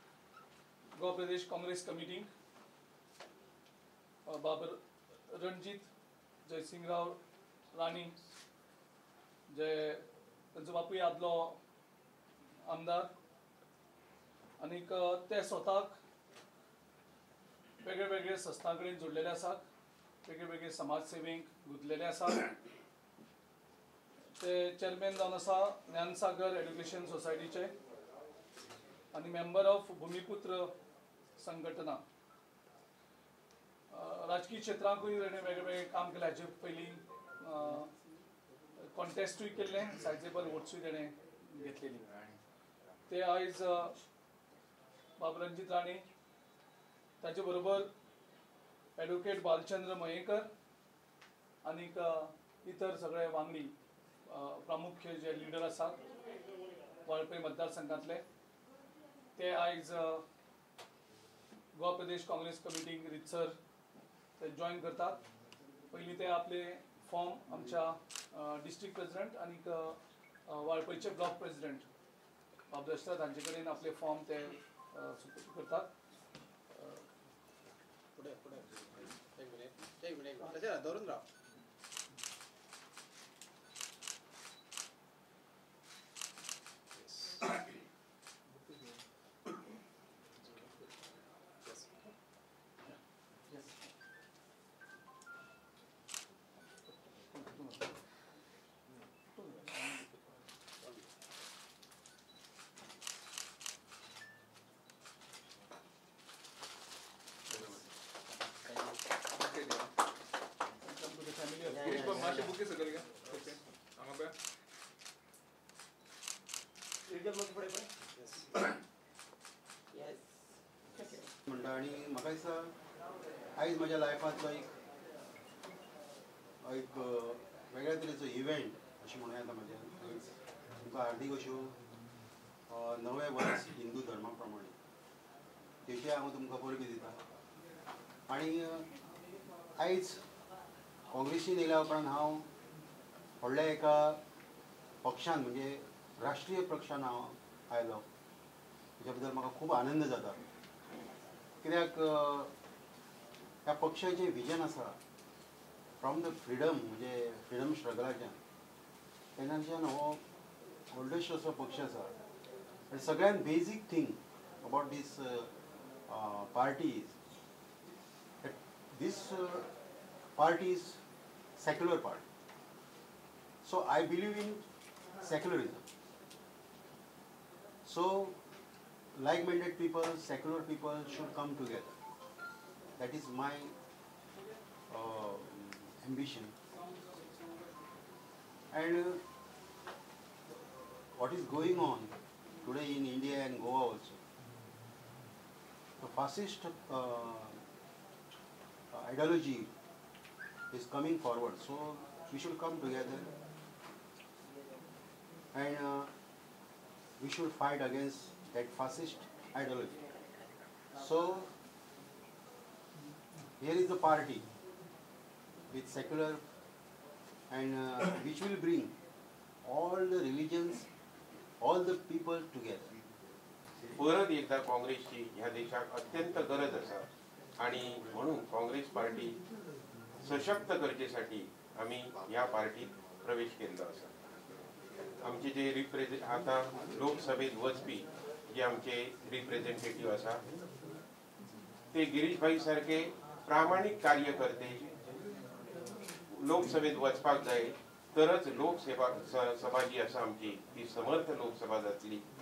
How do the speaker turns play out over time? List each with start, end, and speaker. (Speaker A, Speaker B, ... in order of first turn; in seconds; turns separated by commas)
Speaker A: 0.9-2.3, Speaker A: 4.2-5.9, Speaker A: 6.4-7.2, Speaker A: 7.7-8.2, Speaker A: 9.5-11.6, Speaker A: 12.6-13.1, Speaker A: 14.6-16.0, Speaker A: 17.8-19.6, Speaker A: 20.2-22.5, Speaker A: 24.4-27.7, Speaker A: 29.1-30.7, Speaker A: 31.4-32.0, Speaker A: 33.9-37.9, Speaker A: 38.8-42.3, Speaker A: 43.1-44.0, Speaker A: 45.2-46.0, Speaker A: 47.2-47.9, Speaker A: 49.0-50.5, Speaker A: 51.6-53.7, Speaker A: 54.2-56.0, Speaker A: 57.0-58.2, Speaker A: 59.4-60.2, Speaker A: 61.7-63.5, Speaker A: 64.4-65.2, Speaker A: 65.9-71.9, Speaker A: 72.7-75.9, Speaker A: 76.7-77.0, Speaker B: 78.1-81.2, Speaker C: 88.6-89.0, Speaker C: 90.5-90.7, Speaker A: 97.3-97.9, Speaker A: 99.3-100.1, Speaker C: 109.4-109.9, Speaker A: 110.8-112.4, Speaker C: 111.7-114.3, Speaker B: 117.1-118.4, Speaker D: 121.5-122.7, Speaker D: 123.6-124.7, Speaker D: 126.6-131.8, Speaker D: 132.7-134.7, Speaker D: 135.8-137.2, Speaker D: 138.3-138.9, Speaker D: 139.8-140.2, Speaker D: 141.1-142.5, Speaker D: 143.4-144.2, Speaker D: 145.0-148.0, Speaker D: 149.0-150.4, Speaker D: 151.6-152.5, Speaker D: 153.7-155.0, Speaker D: 156.0-158.4, Speaker D: 159.3-160.2, Speaker D: 160.9-162.1, Speaker D: 162.9-165.5, Speaker D: 166.1-167.1, Speaker D: 168.4-169.7, Speaker D: 170.3-171.0, Speaker D: 171.6-172.2, Speaker D: 173.6-174.6, Speaker D: 175.2-175.8, Speaker D: 177.8-178.4, Speaker D: 179.1-181.9, Speaker D: 183.0-183.7, Speaker D: 184.9-186.5, Speaker D: 188.7-189.2, Speaker D: 191.2-194.2, Speaker D: 196.0-197.6, Speaker D: 198.9-199.7, Speaker D: 200.7-203.3, Speaker D: 205.5-206.1, Speaker D: 207.2-210.0, Speaker D: 210.9-211.5, Speaker D: 213.6-214.4, Speaker D: 215.7-216.4, Speaker D: 217.5-218.9, Speaker D: 219.6-220.9, Speaker D: 221.6-222.9, Speaker E: 223.9-227.1, Speaker E: 227.6-229.4, Speaker E: 230.2-234.1, Speaker E: 235.2-240.4, Speaker E: 241.9-244.9, Speaker E: 246.3-252.2